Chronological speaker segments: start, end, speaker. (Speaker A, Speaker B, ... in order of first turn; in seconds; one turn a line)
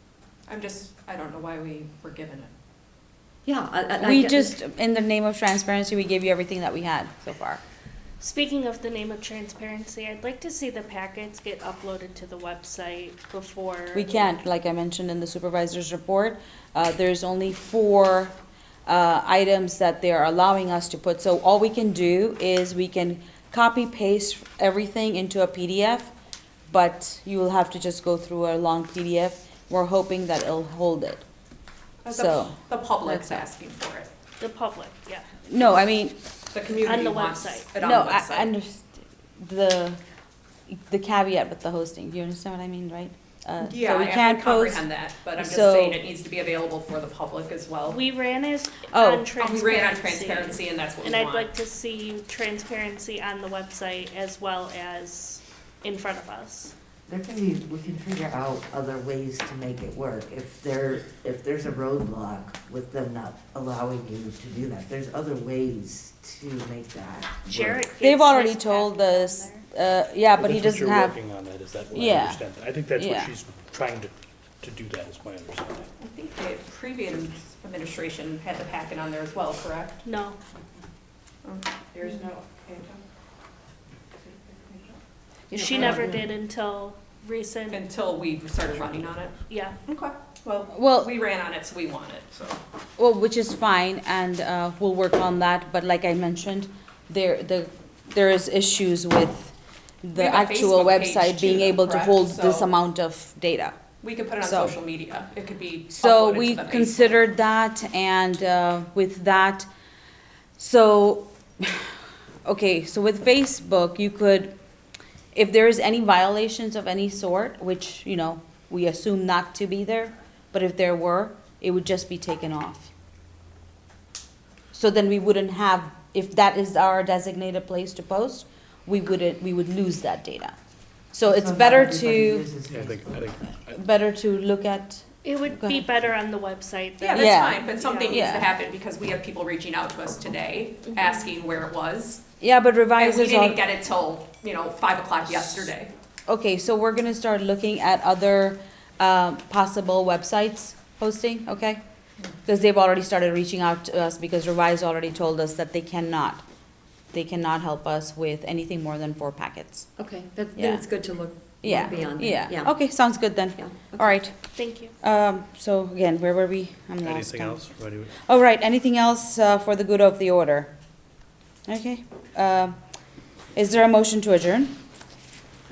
Speaker A: 0.5-2.5
Speaker B: 3.4-4.6
Speaker C: 4.0-7.6
Speaker D: 8.2-14.2
Speaker C: 13.9-18.3
Speaker C: 18.9-26.1
Speaker C: 26.7-31.2
Speaker A: 32.0-34.1
Speaker C: 32.1-33.4
Speaker D: 34.4-35.2
Speaker C: 35.5-36.2
Speaker A: 36.5-38.5
Speaker D: 36.8-37.7
Speaker C: 37.8-40.0
Speaker C: 40.7-44.8
Speaker A: 43.6-48.0
Speaker C: 45.4-46.0
Speaker D: 47.9-56.7
Speaker C: 48.9-49.3
Speaker A: 49.4-51.5
Speaker E: 57.1-67.5
Speaker F: 67.5-67.9
Speaker D: 67.5-69.7
Speaker C: 68.0-71.2
Speaker F: 70.3-75.9
Speaker C: 71.9-72.4
Speaker C: 72.9-73.3
Speaker A: 76.0-80.0
Speaker D: 80.0-80.4
Speaker A: 81.4-83.0
Speaker A: 84.2-85.0
Speaker B: 85.5-86.2
Speaker D: 85.5-87.8
Speaker A: 85.7-86.1
Speaker A: 87.7-92.6
Speaker D: 89.5-89.8
Speaker C: 90.7-91.1
Speaker C: 93.0-103.8
Speaker A: 100.1-102.7
Speaker A: 104.0-107.2
Speaker C: 104.4-104.7
Speaker C: 105.9-109.7
Speaker C: 110.6-114.5
Speaker C: 115.3-122.9
Speaker C: 124.7-130.5
Speaker C: 131.1-132.5
Speaker E: 131.2-133.3
Speaker F: 132.7-133.8
Speaker C: 133.7-135.9
Speaker D: 135.2-138.5
Speaker A: 137.0-142.2
Speaker C: 137.1-138.5
Speaker C: 142.4-143.6
Speaker A: 142.9-145.9
Speaker C: 146.3-151.8
Speaker C: 152.4-156.4
Speaker C: 157.1-159.9
Speaker B: 160.0-162.7
Speaker C: 160.6-160.8
Speaker C: 161.6-164.3
Speaker B: 163.6-164.1
Speaker D: 164.6-164.9
Speaker C: 165.0-167.6
Speaker F: 167.0-168.2
Speaker C: 168.2-170.7
Speaker C: 171.7-172.8
Speaker C: 173.5-174.7